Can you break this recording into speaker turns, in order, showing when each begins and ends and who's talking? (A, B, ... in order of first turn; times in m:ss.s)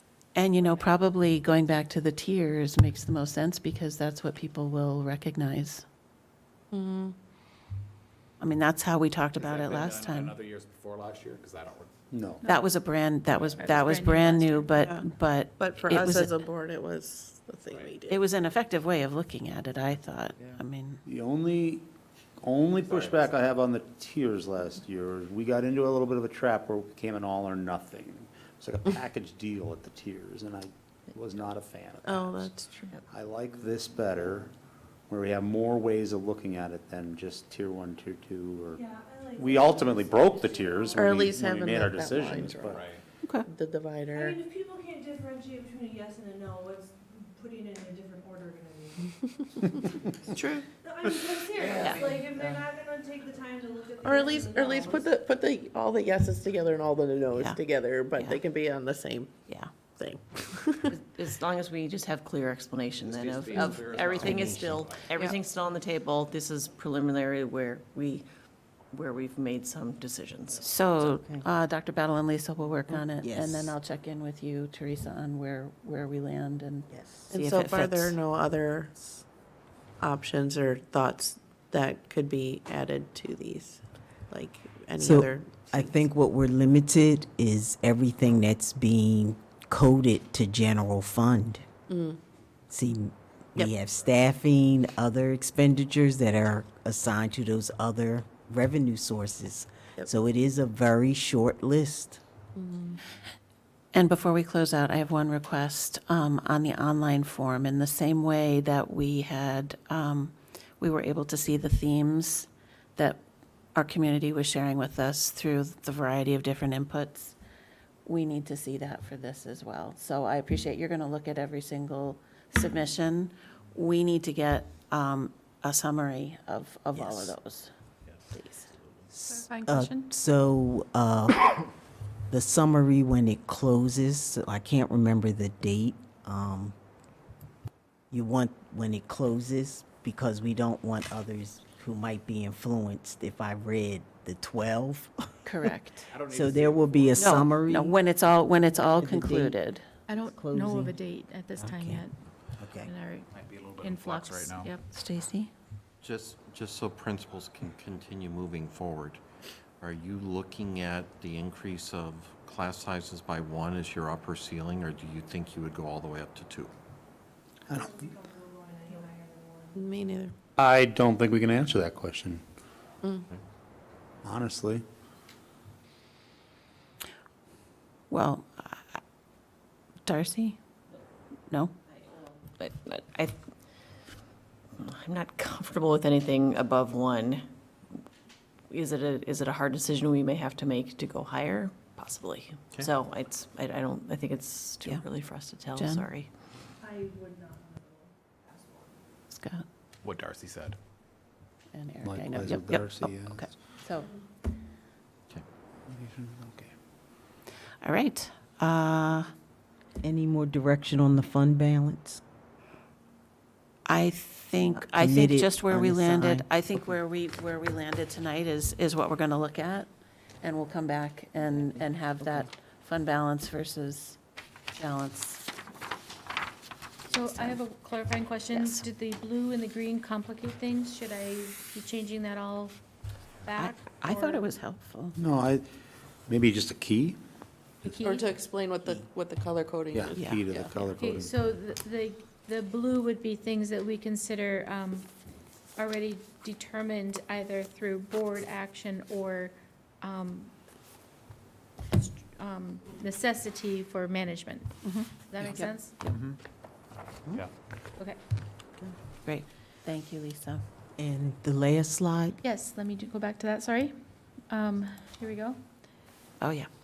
0:00.3-0:05.8 A
0:00.5-0:00.9 B
0:06.7-0:07.1 C
0:08.4-0:10.4 A
0:09.3-0:11.9 D
0:12.1-0:12.4 E
0:12.4-0:12.7 F
0:12.4-0:16.3 A
0:13.5-0:14.8 F
0:15.6-0:18.2 C
0:17.7-0:18.0 D
0:18.1-0:21.0 A
0:20.5-0:21.8 E
0:22.4-0:32.6 E
0:22.8-0:23.4 D
0:32.0-0:32.9 C
0:33.1-0:34.5 E
0:35.1-0:42.9 E
0:38.8-0:40.8 G
0:40.9-0:42.9 C
0:42.7-0:43.0 D
0:43.4-0:44.4 C
0:44.3-0:49.0 G
0:50.3-0:50.6 C
0:50.8-0:55.0 G
0:51.6-0:52.0 D
0:51.7-0:52.6 B
0:54.0-1:01.0 C
0:58.1-0:58.4 A
1:00.9-1:08.2 B
1:03.0-1:05.1 D
1:04.2-1:04.9 H
1:08.9-1:11.2 B
1:10.6-1:18.2 A
1:12.9-1:13.8 H
1:17.3-1:19.2 C
1:20.0-1:26.0 C
1:25.0-1:31.7 H
1:31.9-1:32.2 C
1:32.7-1:42.2 H
1:42.6-1:43.0 C
1:43.9-1:53.2 A
1:53.7-1:57.4 A
1:58.0-2:07.7 A
2:09.1-2:11.6 H
2:09.3-2:10.1 F
2:12.3-2:16.7 H
2:18.1-2:25.1 H
2:25.4-2:26.1 A
2:26.1-2:27.3 D
2:26.3-2:28.0 H
2:27.2-2:29.8 A
2:28.8-2:29.6 H
2:30.1-2:32.1 F
2:30.3-2:31.0 H
2:31.6-2:32.0 H
2:32.6-2:32.9 H
2:32.8-2:34.8 F
2:33.3-2:34.8 D
2:34.9-2:35.5 A
2:36.0-2:39.2 I
2:39.8-2:46.7 I
2:47.7-2:48.1 E
2:47.8-2:49.7 G
2:49.7-2:50.3 C
2:50.6-2:52.4 E
2:54.2-2:54.8 E
2:58.1-2:59.0 A
3:00.0-3:00.6 A
3:01.5-3:01.7 A
3:02.5-3:03.4 B
3:04.8-3:07.4 B
3:08.7-3:16.3 B
3:15.7-3:16.1 A
3:16.8-3:18.8 G
3:19.3-3:19.6 A
3:20.0-3:20.8 D
3:21.7-3:24.1 A
3:22.0-3:23.5 E
3:25.9-3:26.7 E
3:27.8-3:29.3 A
3:30.0-3:32.2 H
3:33.8-3:39.9 A
3:34.8-3:36.9 H
3:40.4-3:44.2 A
3:44.7-3:45.5 A
3:47.1-3:52.8 F
3:47.1-3:47.6 A
3:48.5-3:48.8 A
3:53.4-3:54.5 F
3:53.6-3:55.2 A
3:55.2-3:55.6 E
3:56.3-3:57.2 E
3:57.8-3:58.4 F
3:58.0-4:00.7 C
3:59.9-4:01.5 E
4:00.1-4:00.4 A
4:00.9-4:05.1 F
4:05.8-4:10.5 F
4:11.9-4:16.0 F
4:14.8-4:16.1 A
4:16.1-4:16.4 D
4:19.2-4:20.6 A
4:21.0-4:22.4 H
4:22.4-4:23.9 F
4:24.5-4:25.6 F
4:26.4-4:26.7 A